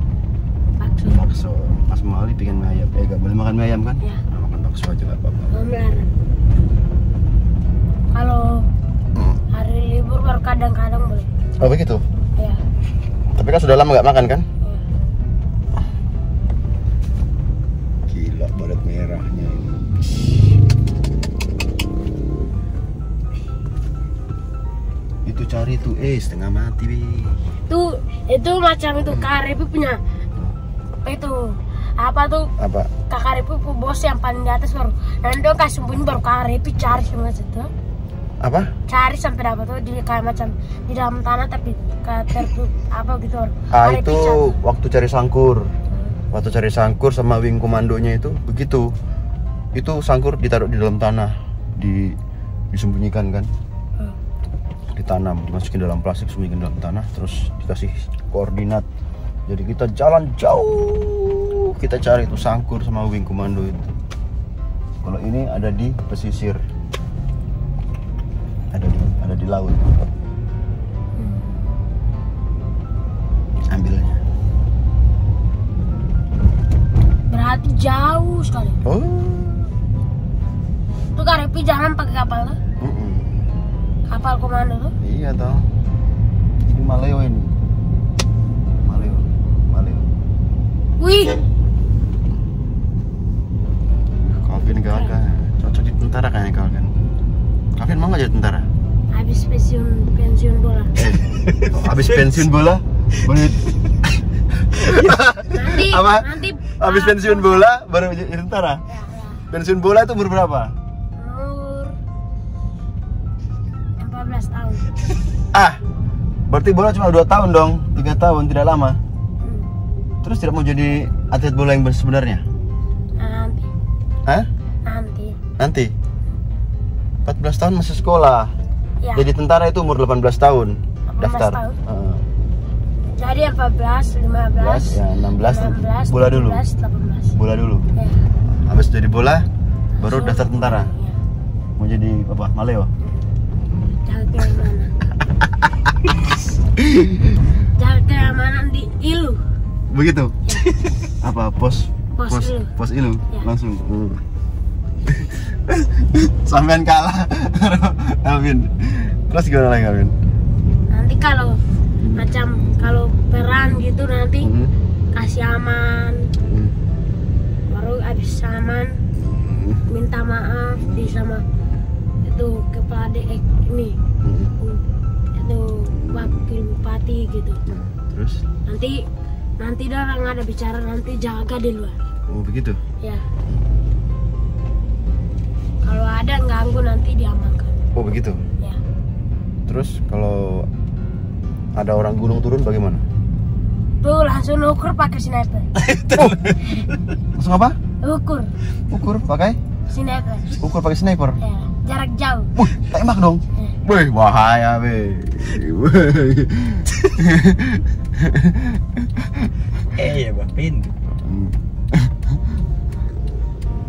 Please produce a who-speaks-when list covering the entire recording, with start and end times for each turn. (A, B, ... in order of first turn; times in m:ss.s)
0:00.8-0:01.2 A
0:01.1-0:05.5 B
0:05.5-0:06.1 A
0:08.1-0:08.7 A
0:09.2-0:09.4 B
0:09.5-0:11.3 A
0:11.6-0:12.0 B
0:13.3-0:14.5 B
0:18.1-0:20.1 B
0:25.2-0:27.4 B
0:27.7-0:30.0 A
0:31.0-0:32.5 A
0:32.6-0:32.9 B
0:33.1-0:37.7 A
0:38.4-0:38.7 B
0:38.9-0:44.6 A
0:43.7-0:45.7 B
0:46.3-0:48.9 B
0:49.8-0:52.2 B
0:52.7-0:53.5 B
0:54.9-0:58.8 B
0:59.5-1:03.9 B
1:05.0-1:06.6 B
1:08.7-1:10.1 B
1:11.2-1:11.6 A
1:13.7-1:14.2 B
1:17.3-1:18.8 A
1:18.8-1:19.7 B
1:21.2-1:22.6 A
1:22.8-1:23.4 B
1:24.1-1:24.9 A
1:25.0-1:25.6 B
1:26.7-1:27.5 B
1:28.8-1:30.1 B
1:31.0-1:31.4 A
1:34.2-1:36.9 B
1:37.8-1:38.7 B
1:39.1-1:40.9 A
1:41.0-1:48.8 B
1:41.4-1:42.3 C
1:44.8-1:45.2 C
1:45.5-1:47.7 A
1:48.9-1:49.5 A
1:49.5-1:50.8 B
1:51.2-1:52.0 A
1:54.0-1:54.9 A
1:55.5-1:55.8 B
1:56.5-1:59.0 B
2:00.2-2:02.4 B
2:03.2-2:03.7 A
2:04.8-2:05.4 A
2:05.6-2:05.9 B
2:07.2-2:08.5 B
2:09.0-2:09.3 A
2:09.2-2:12.2 B
2:11.1-2:11.8 A
2:13.2-2:17.3 A
2:14.6-2:16.6 B
2:17.3-2:17.9 B
2:18.5-2:19.5 B
2:20.0-2:20.9 B
2:20.0-2:21.2 A
2:21.8-2:22.9 B
2:23.9-2:24.9 A
2:25.4-2:25.9 B
2:26.8-2:27.4 B
2:27.8-2:29.4 A
2:29.9-2:30.4 B
2:31.1-2:34.2 B
2:32.2-2:32.7 A
2:35.0-2:40.1 B
2:40.9-2:41.6 A
2:42.0-2:42.3 B
2:42.2-2:44.5 A
2:44.4-2:44.7 B
2:45.1-2:46.2 A
2:46.4-2:46.8 B
2:47.7-2:49.0 A
2:49.2-2:49.8 B
2:49.9-2:51.4 A
2:50.8-2:51.2 B
2:52.2-2:54.0 A
2:54.2-2:54.5 B
2:55.3-2:57.6 A
2:55.9-2:56.4 B
2:57.7-2:58.4 B
2:58.7-2:59.0 A
2:59.6-3:02.0 A
3:02.3-3:02.8 B
3:05.8-3:07.7 A
3:08.0-3:08.4 B
3:09.7-3:10.7 B
3:11.8-3:13.0 B
3:14.0-3:15.7 A
3:15.8-3:17.1 C
3:16.2-3:16.5 B
3:17.3-3:17.8 B
3:18.0-3:18.5 A
3:18.9-3:19.6 B
3:19.9-3:20.6 A
3:20.6-3:21.4 B
3:21.4-3:22.5 A
3:22.5-3:29.5 B
3:29.9-3:31.0 C
3:31.2-3:32.4 B